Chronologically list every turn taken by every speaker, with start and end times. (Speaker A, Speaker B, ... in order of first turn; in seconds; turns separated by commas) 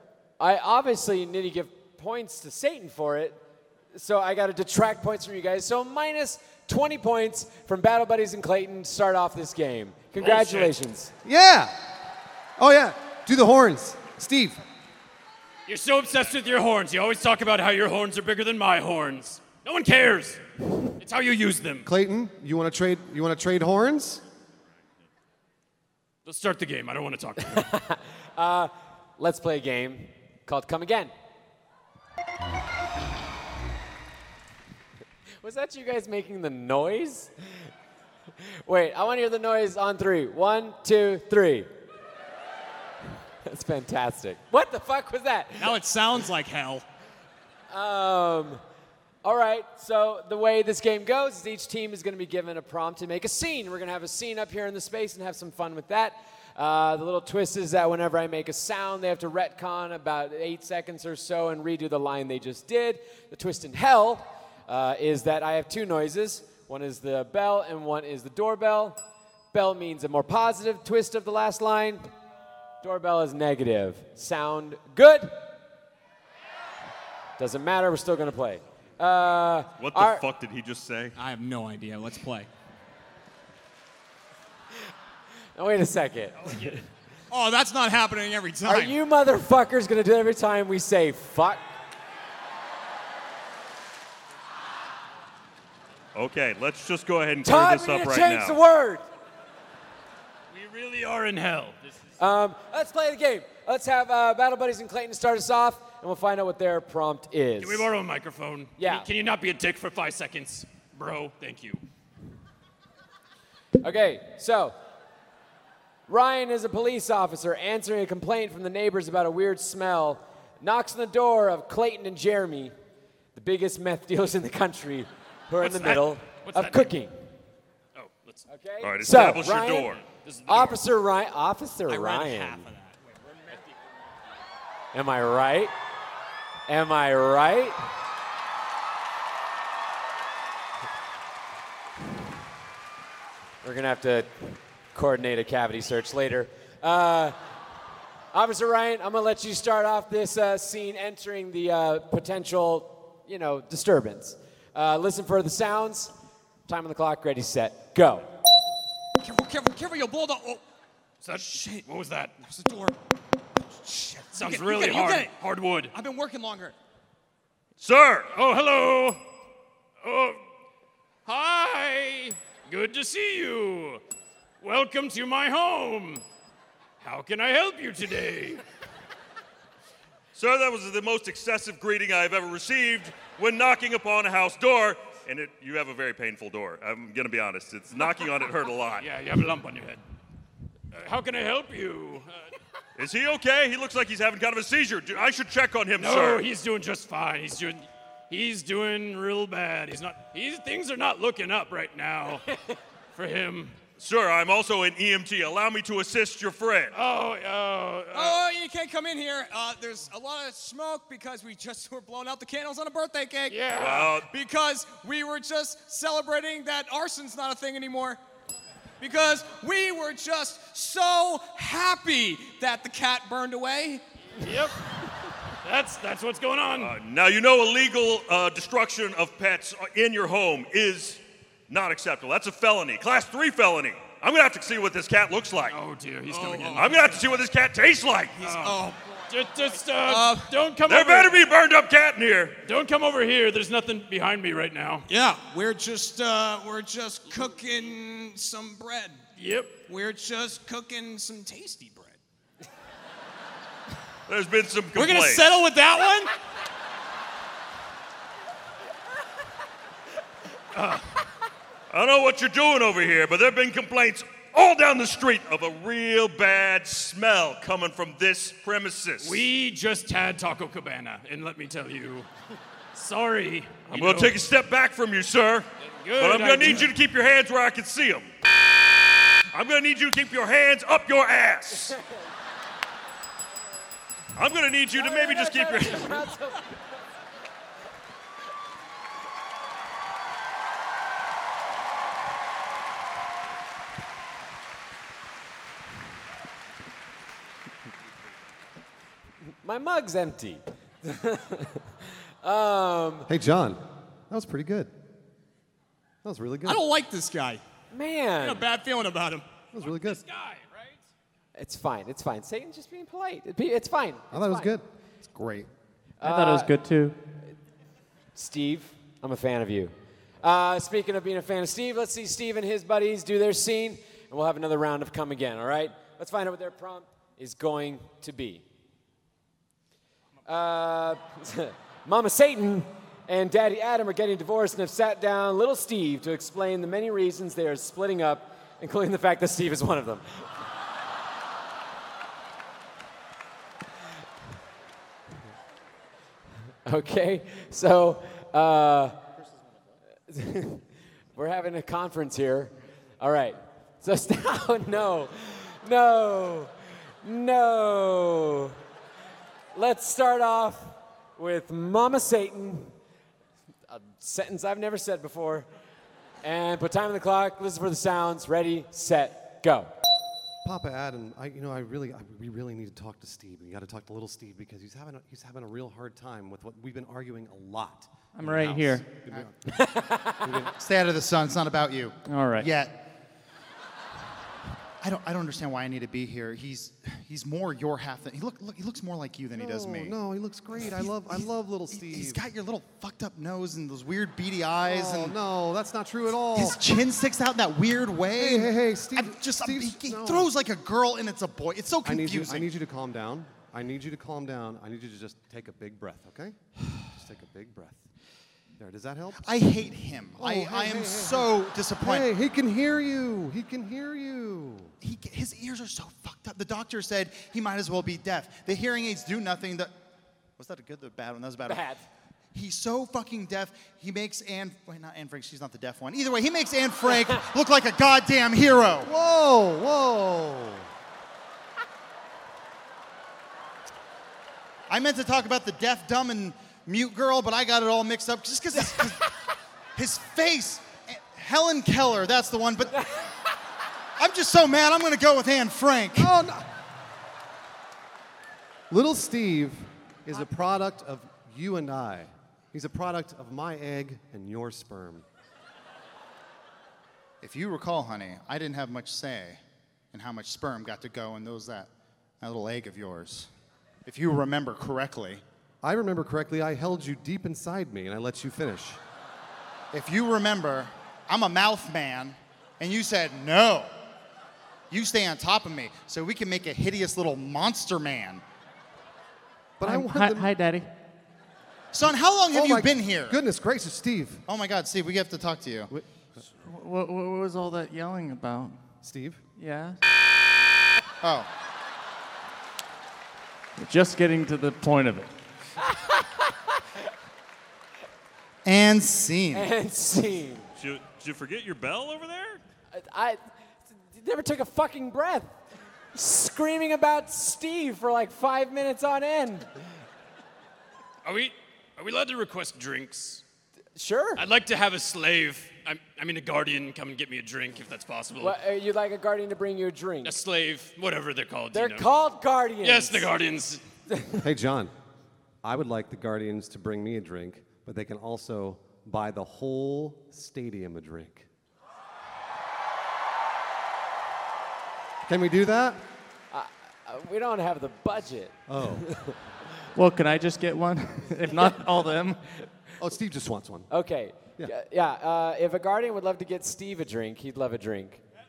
Speaker A: 0.4-3.4, Speaker A: 3.9-11.1, Speaker B: 10.2-10.7, Speaker C: 11.2-11.7, Speaker C: 12.6-14.6, Speaker B: 15.7-20.4, Speaker B: 21.0-21.9, Speaker C: 21.8-24.2, Speaker B: 26.2-27.7, Speaker A: 27.5-31.1, Speaker A: 35.4-37.3, Speaker A: 38.4-41.7, Speaker A: 43.4-45.8, Speaker D: 45.6-46.8, Speaker A: 47.7-48.6, Speaker A: 49.2-69.0, Speaker A: 69.5-72.1, Speaker A: 72.8-75.3, Speaker A: 77.4-80.2, Speaker E: 79.8-81.2, Speaker D: 81.2-82.5, Speaker A: 85.5-86.8, Speaker D: 87.3-89.0, Speaker A: 88.6-91.6, Speaker E: 96.1-98.6, Speaker A: 97.4-99.0, Speaker B: 100.5-101.9, Speaker A: 102.2-107.9, Speaker B: 107.6-111.8, Speaker A: 108.8-109.1, Speaker A: 113.8-114.8, Speaker A: 116.1-122.7, Speaker A: 123.3-127.1, Speaker B: 125.6-126.9, Speaker B: 127.9-128.4, Speaker A: 128.5-132.7, Speaker E: 128.8-130.1, Speaker B: 130.1-130.8, Speaker D: 131.9-133.7, Speaker A: 134.9-135.7, Speaker A: 136.7-137.8, Speaker A: 143.6-147.3, Speaker A: 148.3-156.1, Speaker A: 156.7-158.3, Speaker D: 159.2-160.6, Speaker B: 161.2-162.3, Speaker D: 161.3-161.8, Speaker D: 162.4-162.9, Speaker D: 163.7-165.3, Speaker B: 164.3-165.9, Speaker D: 165.9-166.7, Speaker E: 167.8-168.3, Speaker B: 168.3-169.2, Speaker B: 170.0-170.4, Speaker B: 171.2-174.0, Speaker B: 174.6-176.2, Speaker B: 177.0-178.6, Speaker E: 180.3-189.1, Speaker B: 189.0-190.0, Speaker B: 190.9-192.5, Speaker E: 192.9-196.4, Speaker B: 196.0-202.4, Speaker B: 203.1-203.8, Speaker E: 204.0-206.9, Speaker B: 206.9-208.4, Speaker D: 208.1-218.2, Speaker B: 213.5-214.1, Speaker E: 213.7-214.3, Speaker D: 219.0-224.0, Speaker B: 224.4-224.8, Speaker B: 225.6-226.9, Speaker E: 226.7-235.8, Speaker B: 235.7-237.2, Speaker D: 236.3-237.3, Speaker E: 236.7-238.4, Speaker D: 238.4-240.5, Speaker B: 238.4-241.4, Speaker E: 240.8-242.6, Speaker B: 242.6-245.1, Speaker D: 245.1-249.2, Speaker B: 249.3-249.8, Speaker D: 249.8-252.2, Speaker E: 254.3-255.5, Speaker D: 254.9-256.3, Speaker B: 260.7-261.1, Speaker E: 261.9-269.4, Speaker B: 269.2-272.3, Speaker B: 272.9-274.4, Speaker E: 273.9-278.3, Speaker B: 275.8-276.9, Speaker E: 279.5-282.0, Speaker E: 284.3-286.3, Speaker A: 284.9-286.7, Speaker A: 299.6-303.3, Speaker C: 303.3-304.9, Speaker C: 306.2-306.8, Speaker D: 306.6-307.6, Speaker A: 307.9-308.6, Speaker D: 308.4-309.4, Speaker C: 309.7-310.2, Speaker B: 309.8-311.0, Speaker A: 311.6-314.7, Speaker C: 314.3-314.9, Speaker F: 315.3-315.7, Speaker A: 316.2-316.7, Speaker G: 316.2-317.2, Speaker A: 318.3-328.6, Speaker A: 330.4-340.4, Speaker A: 346.9-349.2, Speaker A: 350.3-350.8, Speaker A: 351.4-358.8, Speaker A: 359.7-362.9, Speaker A: 363.9-365.7, Speaker A: 366.4-369.9, Speaker C: 370.6-379.5, Speaker G: 378.3-379.1, Speaker A: 379.7-380.4, Speaker C: 380.4-380.7, Speaker F: 380.7-383.1, Speaker G: 382.3-382.7, Speaker F: 385.0-390.1, Speaker C: 389.5-392.4, Speaker F: 390.8-395.4, Speaker C: 394.8-396.8, Speaker F: 396.5-402.7, Speaker C: 398.3-400.5, Speaker C: 402.0-408.0, Speaker C: 408.8-409.5, Speaker F: 409.4-412.3, Speaker C: 410.4-414.9, Speaker F: 415.0-419.9, Speaker F: 420.6-421.9, Speaker A: 421.7-422.0, Speaker F: 422.5-429.1, Speaker C: 429.0-430.9, Speaker F: 434.9-439.3, Speaker F: 439.9-443.1, Speaker F: 444.2-446.3, Speaker C: 446.1-446.7, Speaker C: 448.9-455.2, Speaker F: 457.4-459.6, Speaker F: 460.1-463.5, Speaker F: 464.1-465.4, Speaker C: 465.8-469.0, Speaker F: 469.9-473.9, Speaker F: 474.9-478.4, Speaker C: 479.8-480.5, Speaker G: 479.8-480.9, Speaker F: 481.9-483.4, Speaker C: 482.5-484.4, Speaker F: 484.4-485.9, Speaker G: 486.5-488.8, Speaker C: 489.0-489.4, Speaker G: 489.6-490.0, Speaker F: 491.2-491.5, Speaker G: 493.8-495.3, Speaker A: 495.8-496.8, Speaker F: 498.6-499.7, Speaker A: 499.5-500.7, Speaker E: 500.8-502.6, Speaker A: 502.9-505.5, Speaker A: 506.1-509.7, Speaker B: 511.2-513.4, Speaker A: 514.0-514.4, Speaker B: 514.4-518.5, Speaker A: 518.4-520.4, Speaker B: 520.2-522.1, Speaker A: 521.7-523.3, Speaker B: 522.8-523.8, Speaker C: 524.4-524.9, Speaker C: 525.6-531.5, Speaker C: 535.2-536.0, Speaker A: 536.5-539.4, Speaker C: 538.7-539.1, Speaker G: 539.9-542.4, Speaker C: 543.0-543.9, Speaker A: 543.9-548.2